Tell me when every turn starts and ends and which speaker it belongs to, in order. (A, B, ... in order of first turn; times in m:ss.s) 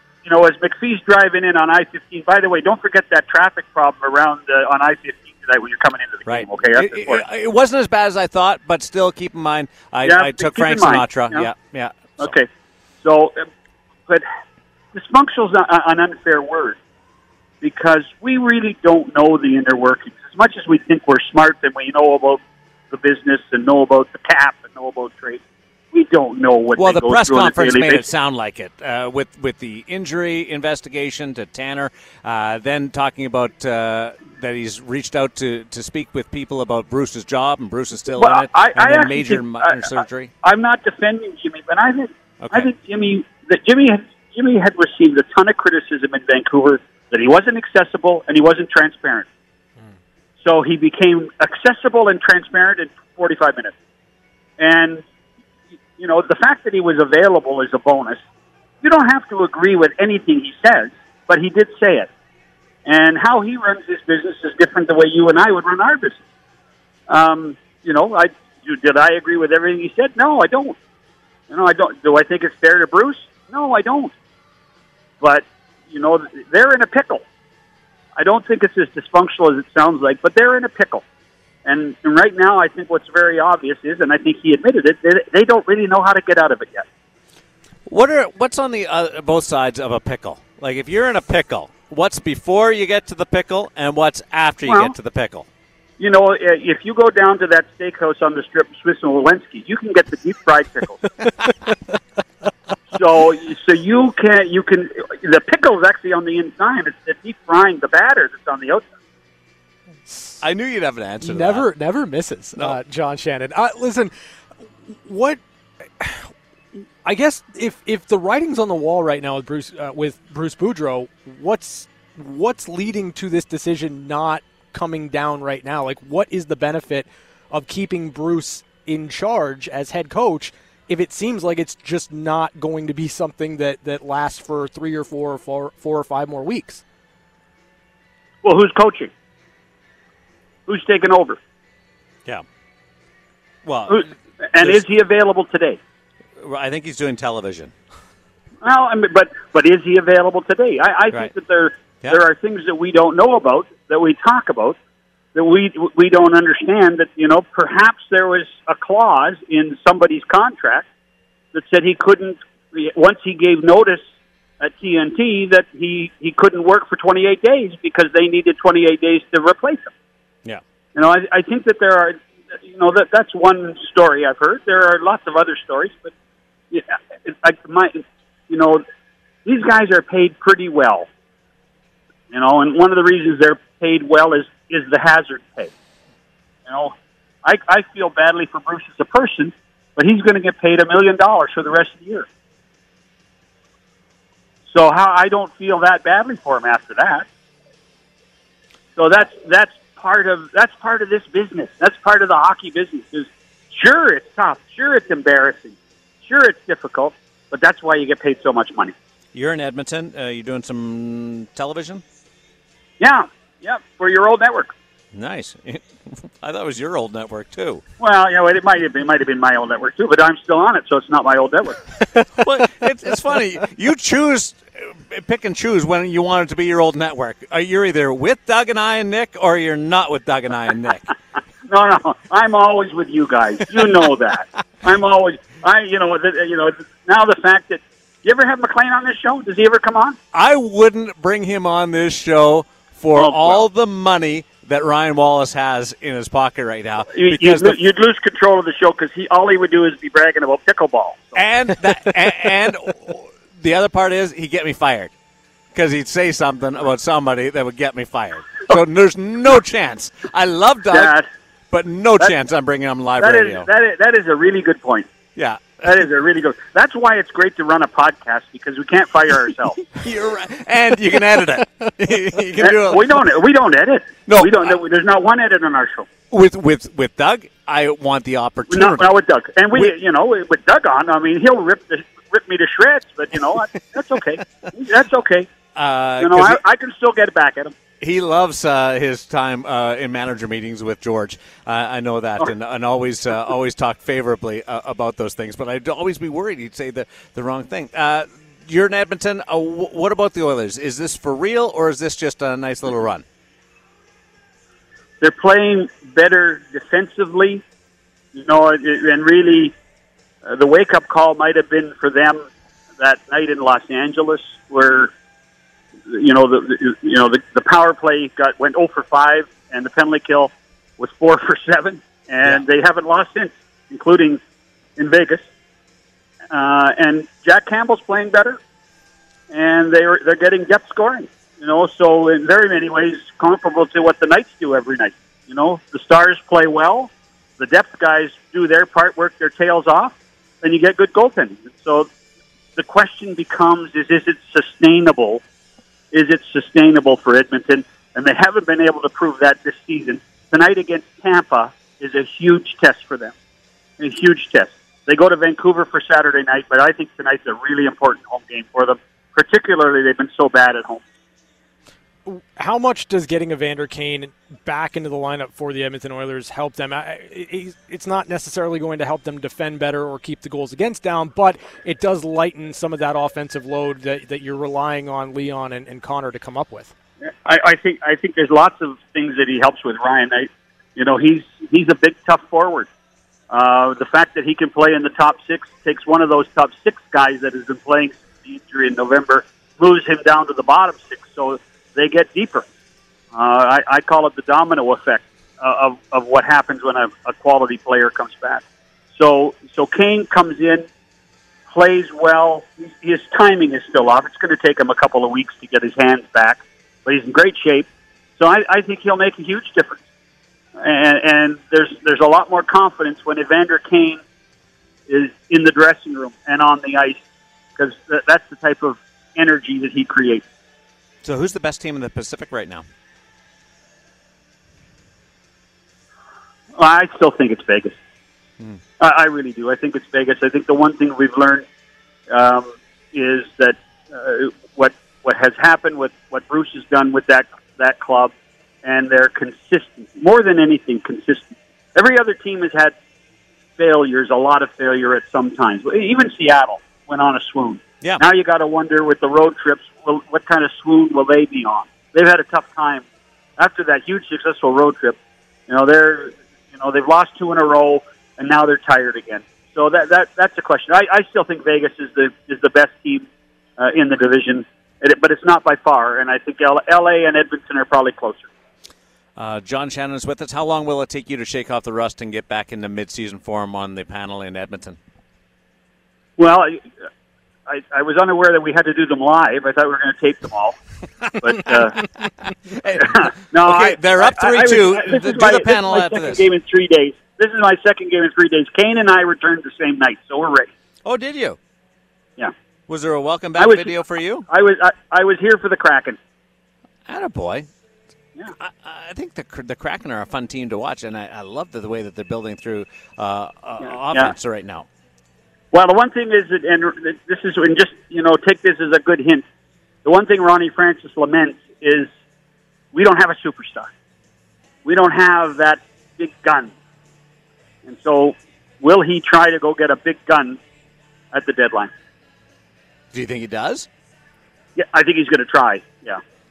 0:00.2-0:07.2 A
0:06.3-0:12.3 B
0:10.0-0:11.5 A
0:12.2-0:12.5 A
0:13.0-0:13.4 A
0:14.9-0:16.8 A
0:17.6-0:25.4 A
0:25.9-0:28.0 A
0:26.8-0:40.3 B
0:38.2-0:39.8 A
0:40.4-0:49.2 A
0:42.4-0:42.7 B
0:50.4-0:53.7 A
0:54.6-0:55.0 A
0:56.0-0:58.2 A
0:58.8-1:02.1 A
1:02.8-1:06.2 A
1:07.1-1:10.8 A
1:11.5-1:14.1 A
1:15.2-1:17.2 A
1:18.2-1:21.0 A
1:21.6-1:26.8 A
1:27.9-1:35.5 B
1:34.7-1:34.9 A
1:36.0-1:41.2 A
1:42.9-1:48.8 A
1:50.1-1:50.4 C
1:50.4-1:51.7 B
1:51.2-1:54.1 C
1:54.8-1:55.4 C
1:56.0-2:16.8 C
2:18.4-2:19.1 A
2:20.7-2:21.4 A
2:23.6-2:24.9 B
2:23.9-2:25.8 A
2:26.4-2:27.7 B
2:28.6-2:34.8 A
2:35.3-2:40.8 A
2:41.5-2:44.0 A
2:44.6-2:49.9 A
2:50.9-2:56.1 A
2:56.7-2:58.8 A
2:59.4-3:01.1 A
3:02.3-3:05.7 A
3:06.7-3:12.3 A
3:14.7-3:17.2 A
3:19.0-3:28.9 A
3:29.3-3:32.0 B
3:33.0-3:34.7 A
3:35.1-3:37.8 B
3:38.0-3:41.8 A
3:42.3-3:51.1 B
3:51.7-4:00.2 A
4:00.3-4:07.8 B
4:03.2-4:03.6 A
4:07.1-4:11.4 A
4:11.3-4:15.1 B
4:15.7-4:21.1 B
4:20.9-4:21.2 A
4:21.7-4:23.7 B
4:23.2-4:25.1 A
4:25.4-4:25.8 B
4:25.8-4:29.9 A
4:29.9-4:33.2 B
4:32.6-4:36.1 A
4:34.3-4:34.8 B
4:36.3-4:39.0 B
4:38.7-4:45.5 A
4:45.7-4:46.6 B
4:46.2-4:47.7 A
4:48.0-5:03.2 B
5:05.2-5:07.6 A
5:08.3-5:09.7 A
5:10.4-5:12.4 A
5:13.0-5:15.1 A
5:16.1-5:24.4 A
5:25.0-5:25.4 A
5:26.5-5:28.6 A
5:29.5-5:42.1 A
5:42.8-5:45.4 A
5:46.1-5:53.3 A
5:54.0-6:01.0 A
6:02.2-6:16.9 C
6:17.2-6:22.9 A
6:23.5-6:32.6 A
6:33.3-6:38.6 A
6:39.2-6:40.9 A
6:41.7-6:47.9 A
6:48.4-6:50.0 A
6:50.8-6:54.2 A
6:55.1-6:57.2 A
6:57.8-7:00.4 A
7:01.2-7:02.8 B
7:06.8-7:08.0 A
7:09.0-7:11.6 A
7:12.3-7:18.3 A
7:18.8-7:22.9 A
7:23.8-7:33.0 A
7:33.6-7:35.2 A
7:35.7-7:43.2 A
7:43.8-7:48.5 A
7:49.4-7:55.0 B
7:56.4-7:56.8 A
7:57.7-8:00.8 A
8:01.4-8:02.0 A
8:02.7-8:06.5 B
8:03.0-8:10.7 A
8:11.0-8:11.6 B
8:12.9-8:14.5 B
8:13.6-8:13.9 A
8:14.5-8:16.2 A
8:17.1-8:17.7 B
8:18.6-8:24.8 B
8:25.7-8:29.4 A
8:30.0-8:32.1 A
8:32.9-8:33.9 A
8:34.8-8:36.7 A
8:37.8-8:40.6 A
8:41.3-8:41.9 A
8:43.1-8:43.9 B
8:44.8-8:46.2 A